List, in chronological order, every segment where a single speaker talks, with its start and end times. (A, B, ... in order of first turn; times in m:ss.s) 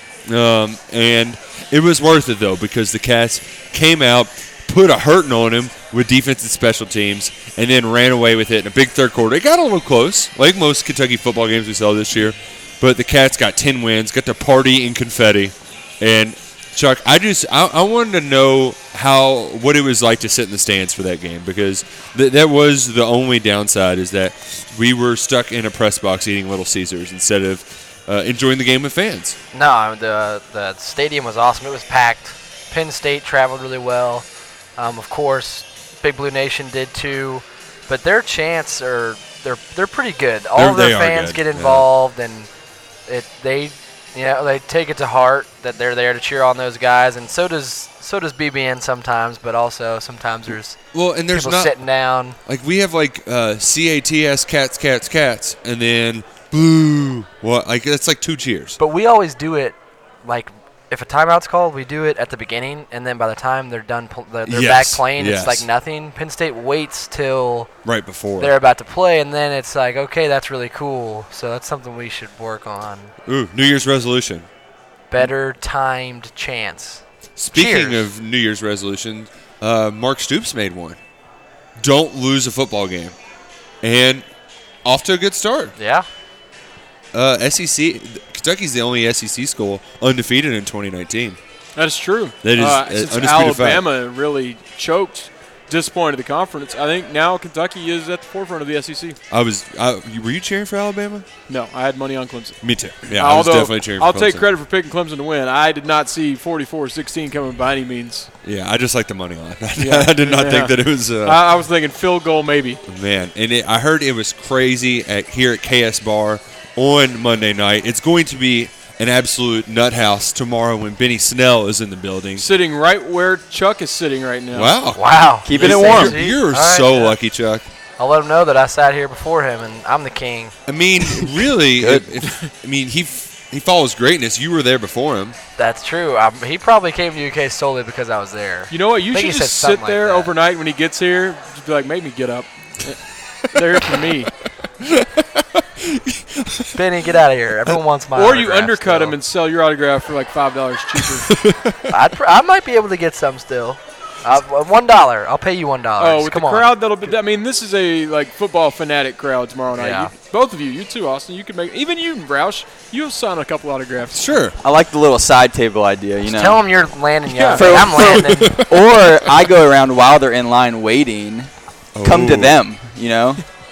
0:00.2-0:29.4 A
0:29.5-0:34.2 B
0:34.8-0:42.5 B
0:40.6-0:41.9 A
0:43.1-0:50.8 B
0:50.9-0:51.7 A
0:51.3-0:52.4 B
0:52.4-0:58.8 A
0:58.8-1:07.7 B
1:04.4-1:05.7 A
1:07.8-1:08.5 A
1:08.4-1:13.1 B
1:13.2-1:14.5 A
1:15.1-1:18.1 B
1:17.4-1:21.0 A
1:21.8-1:23.1 A
1:23.8-1:24.2 A
1:24.8-1:25.7 A
1:25.8-1:26.0 B
1:27.1-1:31.4 A
1:31.8-1:39.2 C
1:32.4-1:33.8 A
1:39.3-1:41.2 A
1:41.5-1:48.3 C
1:42.6-1:44.5 A
1:48.4-1:51.4 A
1:49.8-1:52.8 C
1:52.9-2:02.5 A
2:02.4-2:04.7 C
2:04.5-2:05.0 A
2:04.9-2:07.1 B
2:05.4-2:06.2 D
2:05.5-2:07.6 A
2:08.0-2:10.5 B
2:10.7-2:15.4 A
2:11.0-2:12.1 D
2:15.6-2:20.3 B
2:18.7-2:24.3 C
2:23.6-2:24.1 A
2:24.8-2:26.8 A
2:26.7-2:29.2 B
2:28.1-2:31.3 C
2:31.0-2:32.0 A
2:31.9-2:36.7 B
2:36.0-2:44.3 C
2:39.7-2:40.1 B
2:44.1-2:44.6 A
2:44.6-2:46.6 D
2:46.2-2:48.6 B
2:47.3-2:47.8 C
2:47.5-2:51.5 D
2:47.9-2:48.7 A
2:51.9-2:52.6 A
2:52.0-2:53.4 D